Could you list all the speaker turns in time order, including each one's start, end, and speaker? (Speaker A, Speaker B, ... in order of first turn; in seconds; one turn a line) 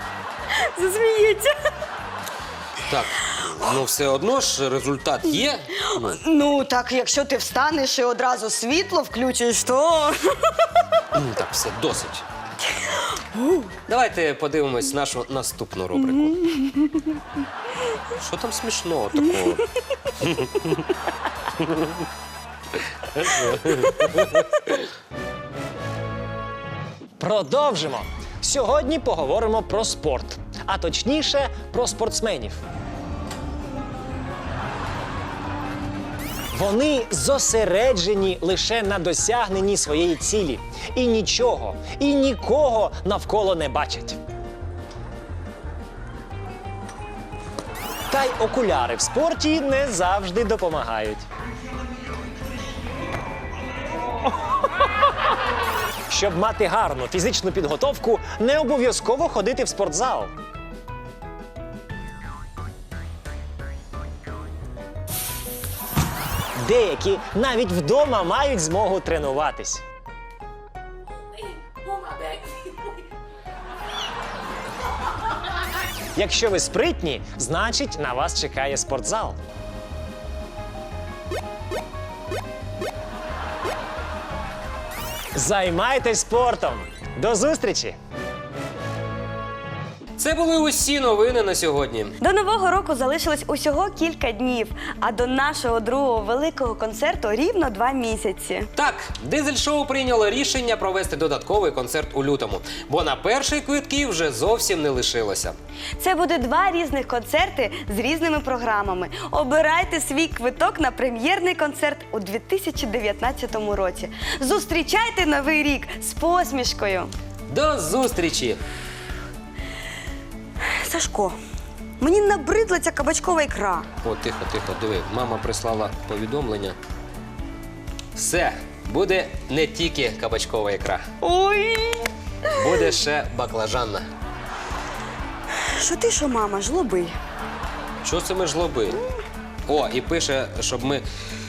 Speaker A: 0.5-1.7
Speaker B: 2.9-6.2
Speaker A: 5.9-10.7
Speaker B: 11.1-12.2
Speaker A: 12.7-13.7
Speaker B: 13.8-16.4
Speaker A: 16.4-17.2
Speaker B: 18.1-19.7
Speaker B: 20.2-20.8
Speaker B: 21.6-21.9
Speaker B: 23.0-24.7
Speaker C: 27.2-32.6
Speaker C: 36.5-44.2
Speaker C: 48.1-51.2
Speaker C: 56.1-60.3
Speaker C: 66.6-69.8
Speaker A: 71.9-72.7
Speaker C: 76.1-79.4
Speaker C: 85.3-88.0
Speaker B: 90.2-92.2
Speaker A: 92.2-98.7
Speaker B: 98.8-105.5
Speaker A: 106.0-117.1
Speaker B: 117.5-118.6
Speaker A: 120.6-121.4
Speaker A: 122.0-123.9
Speaker B: 124.0-126.8
Speaker B: 128.1-131.1
Speaker A: 131.2-132.8
Speaker B: 132.5-134.1
Speaker A: 135.5-137.2
Speaker B: 138.0-139.0
Speaker B: 139.7-141.0